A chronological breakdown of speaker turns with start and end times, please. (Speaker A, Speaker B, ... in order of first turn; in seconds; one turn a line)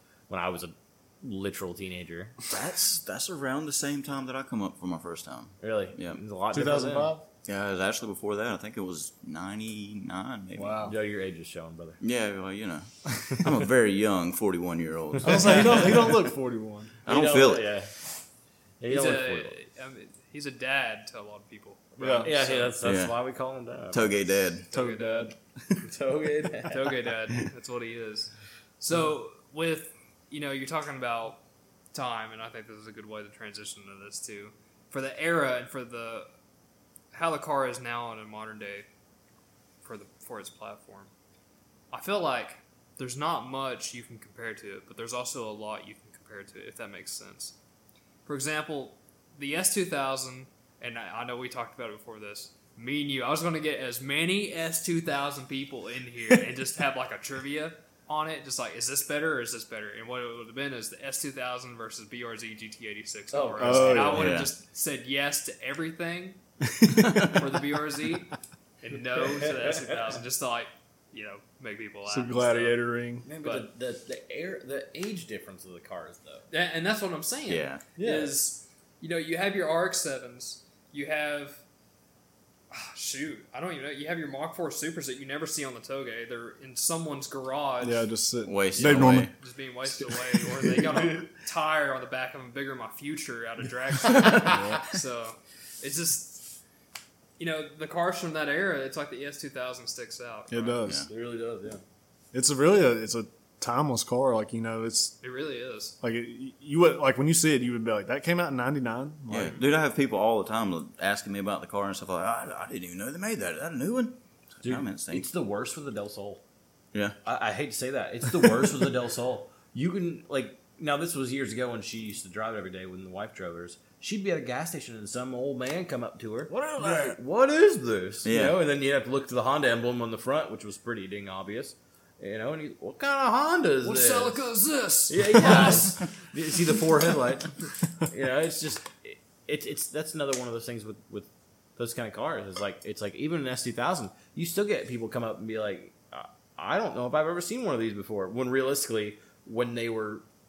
Speaker A: 0.3-2.4
Speaker B: 2.5-6.2
Speaker A: 5.6-7.1
Speaker C: 6.5-7.2
Speaker B: 7.4-10.9
Speaker C: 10.6-10.9
Speaker A: 10.8-12.0
Speaker B: 12.0-16.1
Speaker C: 15.2-17.0
Speaker A: 15.3-16.1
Speaker B: 17.0-17.8
Speaker A: 17.1-17.9
Speaker A: 18.8-19.6
Speaker D: 18.9-22.7
Speaker C: 22.0-22.3
Speaker A: 22.2-24.2
Speaker B: 22.8-23.1
Speaker B: 23.9-24.7
Speaker D: 24.7-25.3
Speaker C: 24.7-25.8
Speaker A: 25.8-27.0
Speaker D: 26.7-31.4
Speaker D: 31.9-36.3
Speaker D: 37.1-38.9
Speaker D: 39.8-41.1
Speaker D: 41.9-47.5
Speaker D: 48.2-66.4
Speaker A: 63.3-64.3
Speaker C: 63.6-64.4
Speaker B: 64.1-64.5
Speaker C: 66.6-67.6
Speaker D: 67.1-72.8
Speaker A: 69.2-70.1
Speaker C: 72.0-73.3
Speaker A: 73.2-76.5
Speaker D: 73.4-73.7
Speaker D: 76.5-81.6
Speaker B: 77.5-77.8
Speaker A: 78.0-78.3
Speaker D: 82.7-88.0
Speaker C: 87.8-89.3
Speaker B: 88.4-89.3
Speaker D: 88.8-96.5
Speaker C: 90.0-91.3
Speaker C: 94.4-94.8
Speaker D: 97.4-100.8
Speaker C: 100.5-101.0
Speaker A: 101.0-101.8
Speaker C: 102.3-105.2
Speaker D: 105.2-105.9
Speaker C: 106.0-109.6
Speaker B: 109.3-115.3
Speaker A: 114.6-116.4
Speaker A: 117.2-134.4
Speaker B: 126.6-127.0
Speaker C: 126.7-127.2
Speaker B: 128.2-128.6
Speaker D: 133.8-136.1
Speaker A: 135.1-150.2